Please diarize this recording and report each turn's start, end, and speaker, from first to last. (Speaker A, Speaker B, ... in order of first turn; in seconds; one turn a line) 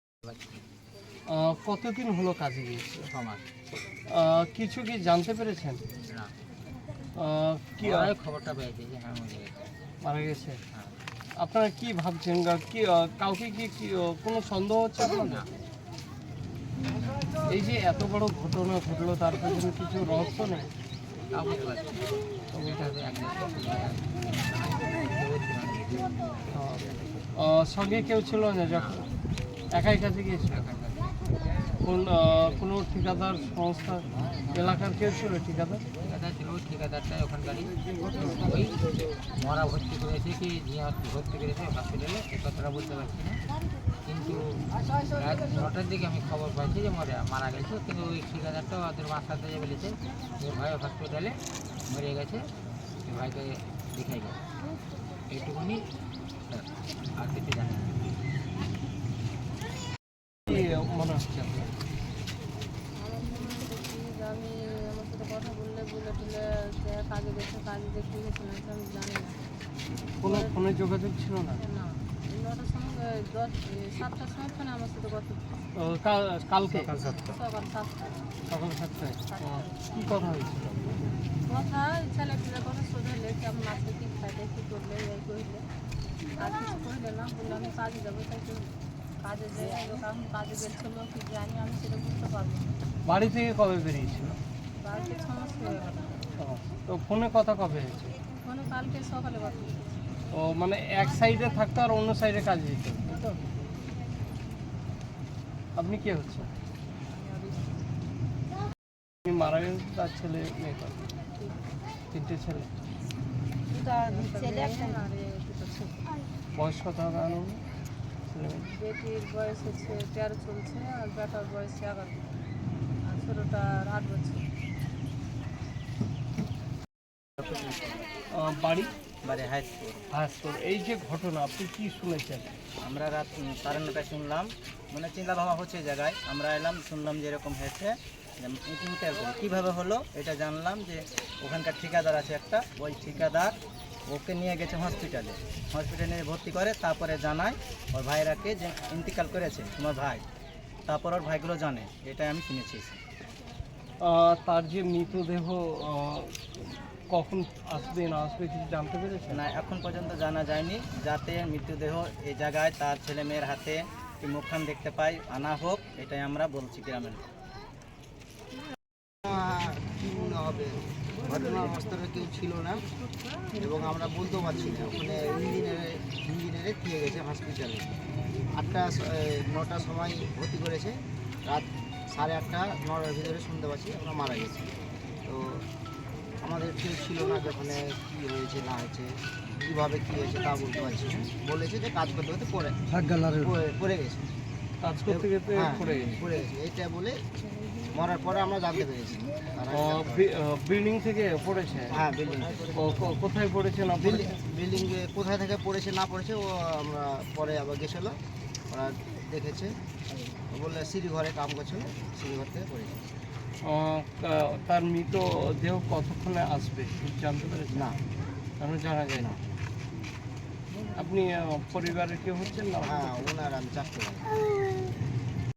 Speaker A: 0.2-0.6
Speaker B: 1.3-3.1
Speaker A: 3.1-3.4
Speaker B: 4.1-5.8
Speaker B: 7.2-8.1
Speaker A: 7.8-9.7
Speaker B: 10.0-10.6
Speaker B: 11.4-15.4
Speaker A: 15.1-15.5
Speaker B: 17.5-20.7
Speaker A: 21.3-22.0
Speaker B: 22.5-22.8
Speaker A: 22.5-26.4
Speaker B: 26.5-26.8
Speaker B: 27.4-29.1
Speaker A: 28.7-29.1
Speaker B: 29.7-30.6
Speaker A: 30.5-31.1
Speaker B: 31.8-35.8
Speaker A: 36.0-43.4
Speaker A: 44.0-44.4
Speaker A: 45.1-51.4
Speaker A: 51.9-52.4
Speaker A: 53.0-54.4
Speaker A: 55.3-55.8
Speaker A: 56.5-58.1
Speaker B: 60.5-61.7
Speaker C: 63.0-69.4
Speaker B: 70.2-71.6
Speaker C: 70.2-70.7
Speaker C: 71.6-75.5
Speaker B: 75.8-76.9
Speaker D: 76.7-77.4
Speaker C: 77.2-78.2
Speaker B: 78.5-80.9
Speaker C: 79.3-79.8
Speaker C: 81.4-85.6
Speaker C: 86.4-92.7
Speaker B: 93.1-94.4
Speaker C: 94.8-96.3
Speaker B: 96.4-98.2
Speaker C: 98.4-99.9
Speaker B: 100.3-103.2
Speaker B: 105.8-106.5
Speaker C: 107.1-107.8
Speaker B: 109.2-111.0
Speaker B: 112.1-112.7
Speaker C: 113.8-116.0
Speaker B: 116.5-117.6
Speaker B: 118.3-118.8
Speaker C: 118.7-122.3
Speaker C: 123.1-124.4
Speaker D: 127.4-128.0
Speaker B: 128.3-128.9
Speaker D: 129.2-130.1
Speaker B: 130.1-132.5
Speaker D: 132.8-143.6
Speaker D: 144.1-150.2
Speaker D: 150.8-153.0
Speaker B: 154.0-159.4
Speaker D: 159.3-167.2
Speaker E: 169.2-172.8
Speaker E: 173.6-177.9
Speaker E: 178.6-184.7
Speaker E: 185.2-185.7
Speaker E: 186.4-192.8
Speaker E: 193.3-194.3
Speaker B: 194.8-196.2
Speaker E: 195.1-197.2
Speaker E: 197.9-200.3
Speaker B: 199.7-204.4
Speaker E: 201.9-203.2
Speaker E: 203.9-208.2
Speaker E: 208.7-209.8
Speaker E: 210.5-213.0
Speaker B: 213.6-217.9
Speaker E: 217.7-218.0
Speaker B: 218.6-219.3
Speaker E: 219.1-219.5
Speaker B: 220.9-223.3
Speaker E: 222.8-224.4